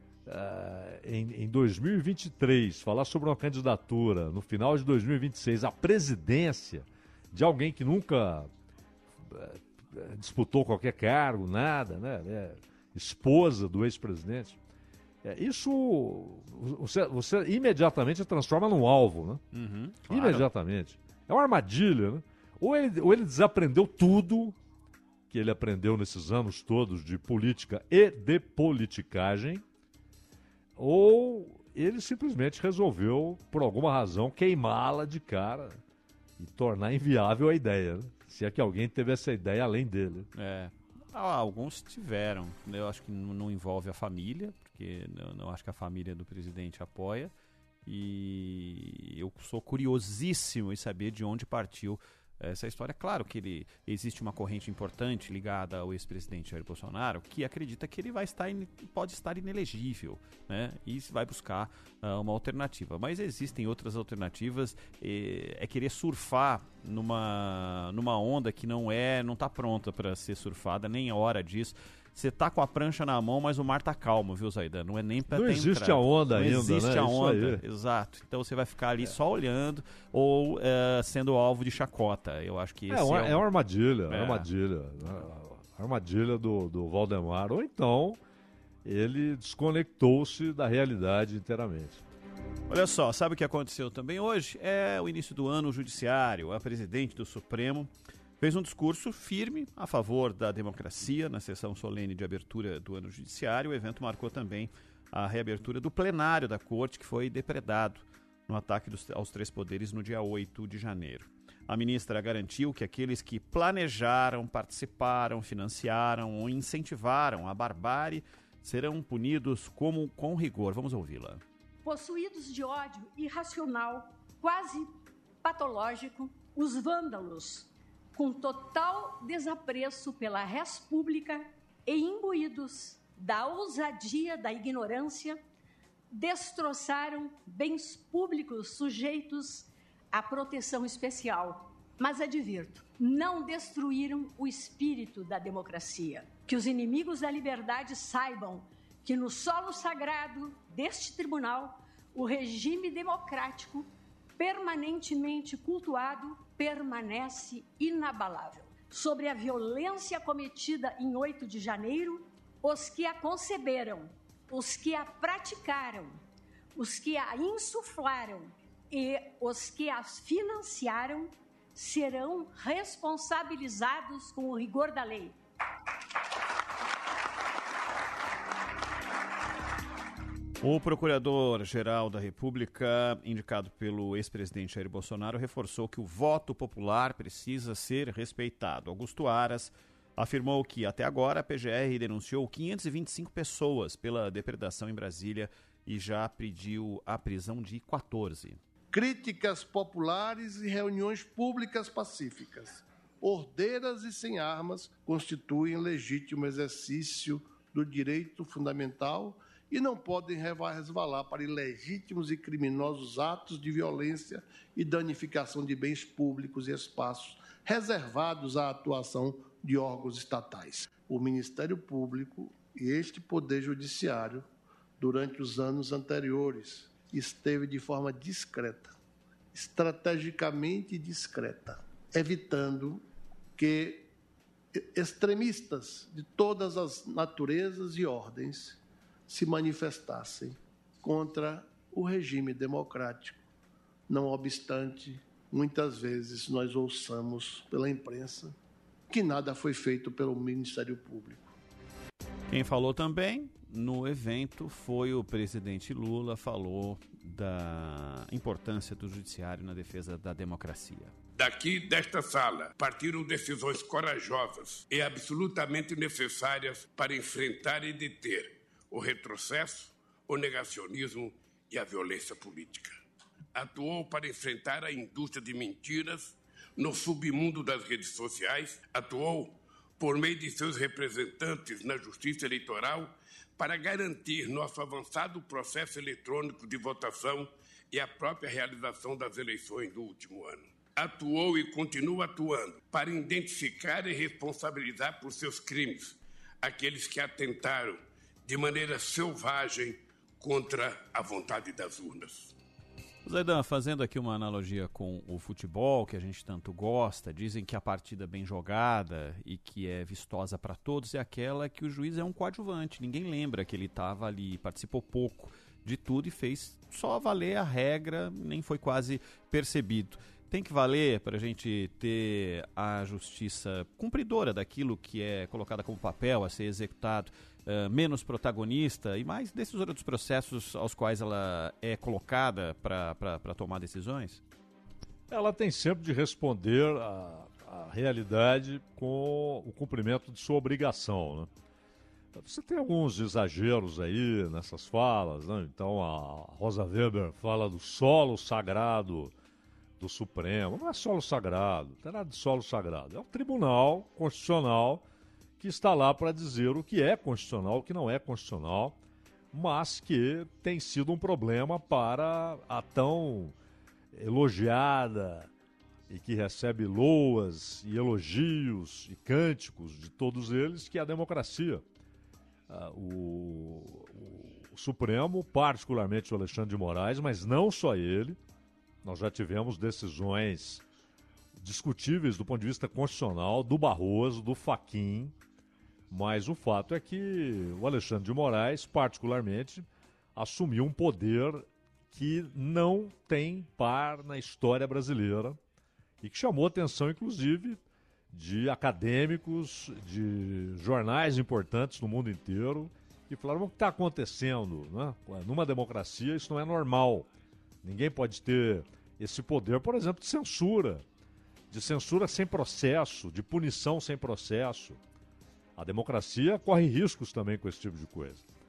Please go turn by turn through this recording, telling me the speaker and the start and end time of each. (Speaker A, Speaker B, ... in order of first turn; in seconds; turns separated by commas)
Speaker A: 0.3-8.5, Speaker A: 9.2-14.6, Speaker A: 15.2-19.4, Speaker B: 19.5-20.5, Speaker A: 20.1-24.6, Speaker A: 25.3-29.6, Speaker A: 30.8-35.8, Speaker A: 36.4-40.3, Speaker B: 40.3-47.3, Speaker B: 47.9-83.4, Speaker A: 75.3-77.6, Speaker A: 82.9-88.2, Speaker B: 84.1-84.5, Speaker A: 88.8-92.0, Speaker B: 92.7-121.4, Speaker C: 121.8-135.4, Speaker C: 136.1-166.2, Speaker C: 166.8-175.4, Speaker B: 180.6-198.6, Speaker D: 198.9-224.5, Speaker D: 225.0-228.9, Speaker D: 229.5-233.0, Speaker D: 233.6-234.1, Speaker D: 234.8-243.4, Speaker D: 244.1-248.6, Speaker D: 249.1-251.5, Speaker B: 252.5-261.1, Speaker E: 261.4-272.9, Speaker E: 273.6-302.5, Speaker B: 303.2-334.4, Speaker A: 335.3-341.5, Speaker A: 342.3-349.3, Speaker A: 350.0-355.1, Speaker A: 355.6-359.0, Speaker A: 359.5-363.6, Speaker A: 364.1-365.5, Speaker A: 366.1-371.8, Speaker A: 372.7-378.4, Speaker A: 379.0-380.8, Speaker A: 381.6-385.4, Speaker A: 386.1-395.6, Speaker A: 396.2-407.3, Speaker A: 407.8-411.1, Speaker A: 411.7-415.0, Speaker A: 415.8-418.4